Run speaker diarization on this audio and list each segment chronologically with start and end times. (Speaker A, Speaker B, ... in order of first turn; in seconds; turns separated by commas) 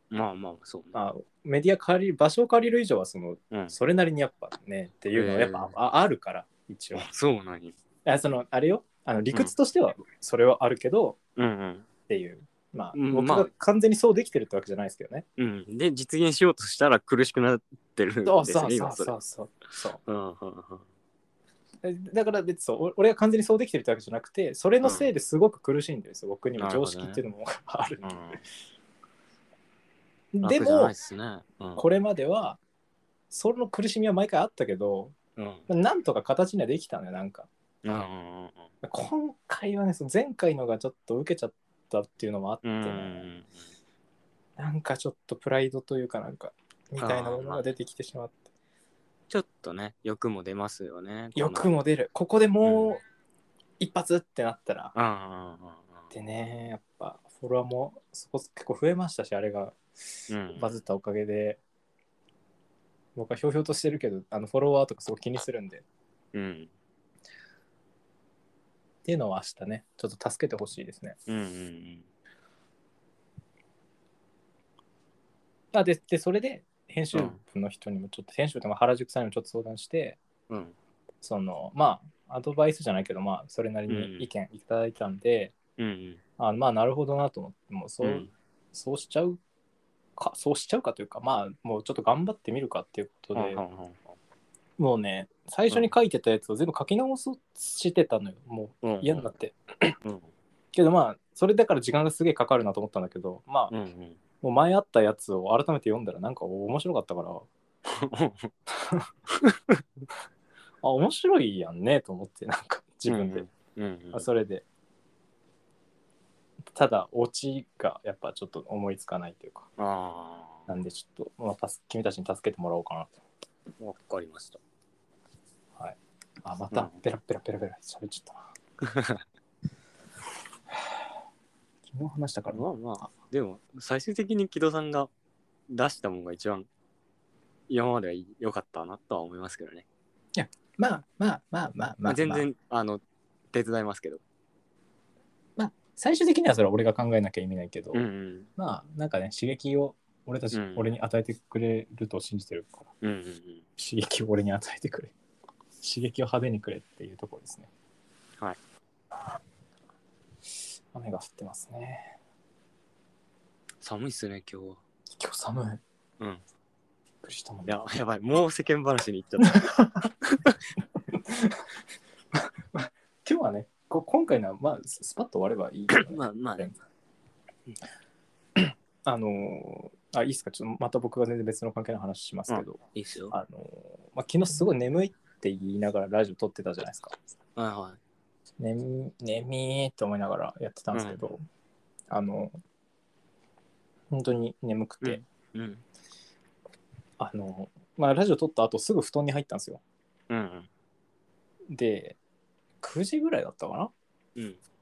Speaker A: 0.1-1.0, Speaker B: 0.9-7.1, Speaker A: 5.1-5.7, Speaker A: 7.0-7.8, Speaker B: 8.0-11.2, Speaker A: 11.3-11.9, Speaker B: 12.1-15.2, Speaker A: 12.9-13.5, Speaker A: 15.4-19.1, Speaker B: 18.2-20.0, Speaker A: 20.1-20.8, Speaker B: 21.8-28.2, Speaker A: 24.8-25.1, Speaker A: 26.6-27.2, Speaker A: 28.0-28.4, Speaker B: 30.3-30.9, Speaker A: 30.4-31.8, Speaker B: 31.8-32.6, Speaker B: 33.3-35.1, Speaker A: 35.4-35.6, Speaker B: 35.7-37.5, Speaker A: 37.8-38.6, Speaker B: 38.8-43.3, Speaker A: 42.6-43.5, Speaker B: 44.6-48.4, Speaker A: 47.0-47.6, Speaker A: 49.3-51.7, Speaker B: 51.3-53.0, Speaker A: 52.6-52.9, Speaker B: 53.8-54.9, Speaker A: 54.9-56.0, Speaker B: 56.1-59.8, Speaker A: 60.3-60.8, Speaker B: 60.5-61.6, Speaker B: 63.1-65.8, Speaker A: 66.3-66.7, Speaker B: 69.0-71.2, Speaker A: 71.3-72.0, Speaker B: 75.7-80.2, Speaker A: 80.5-80.7, Speaker B: 81.2-85.5, Speaker A: 83.9-84.3, Speaker A: 85.8-86.2, Speaker B: 86.4-89.4, Speaker A: 88.0-88.3, Speaker B: 90.2-93.6, Speaker A: 93.3-94.1, Speaker B: 94.8-100.0, Speaker A: 98.8-99.3, Speaker B: 100.7-103.7, Speaker A: 103.7-104.2, Speaker B: 104.4-107.5, Speaker A: 107.8-108.5, Speaker B: 108.7-109.1, Speaker A: 109.3-109.8, Speaker B: 110.8-113.5, Speaker A: 113.1-114.3, Speaker B: 114.1-114.6, Speaker B: 116.7-119.7, Speaker A: 119.8-120.6, Speaker B: 120.7-123.1, Speaker A: 123.8-124.6, Speaker B: 125.8-128.5, Speaker A: 126.7-127.0, Speaker A: 128.8-129.2, Speaker B: 131.9-132.6, Speaker A: 132.5-135.1, Speaker A: 135.7-136.7, Speaker A: 137.7-139.8, Speaker B: 140.3-142.4, Speaker A: 142.0-144.2, Speaker B: 145.6-148.0, Speaker A: 147.9-148.5, Speaker B: 148.6-152.9, Speaker A: 150.5-150.9, Speaker A: 153.0-153.6, Speaker B: 153.8-155.1, Speaker B: 155.8-157.7, Speaker B: 160.9-162.2, Speaker A: 163.8-164.8, Speaker B: 165.1-165.8, Speaker B: 167.2-167.8, Speaker A: 167.6-169.6, Speaker B: 169.5-170.1, Speaker A: 170.3-170.5, Speaker B: 171.2-171.6, Speaker B: 172.3-176.8, Speaker A: 175.9-176.7, Speaker B: 178.6-182.8, Speaker A: 182.5-183.3, Speaker B: 183.3-187.2, Speaker A: 187.6-188.0, Speaker B: 188.6-191.4, Speaker A: 190.9-191.2, Speaker B: 192.1-192.6, Speaker B: 194.1-195.2, Speaker A: 195.0-195.8, Speaker B: 197.2-199.8, Speaker A: 200.3-200.7, Speaker B: 201.7-202.2, Speaker B: 202.8-203.9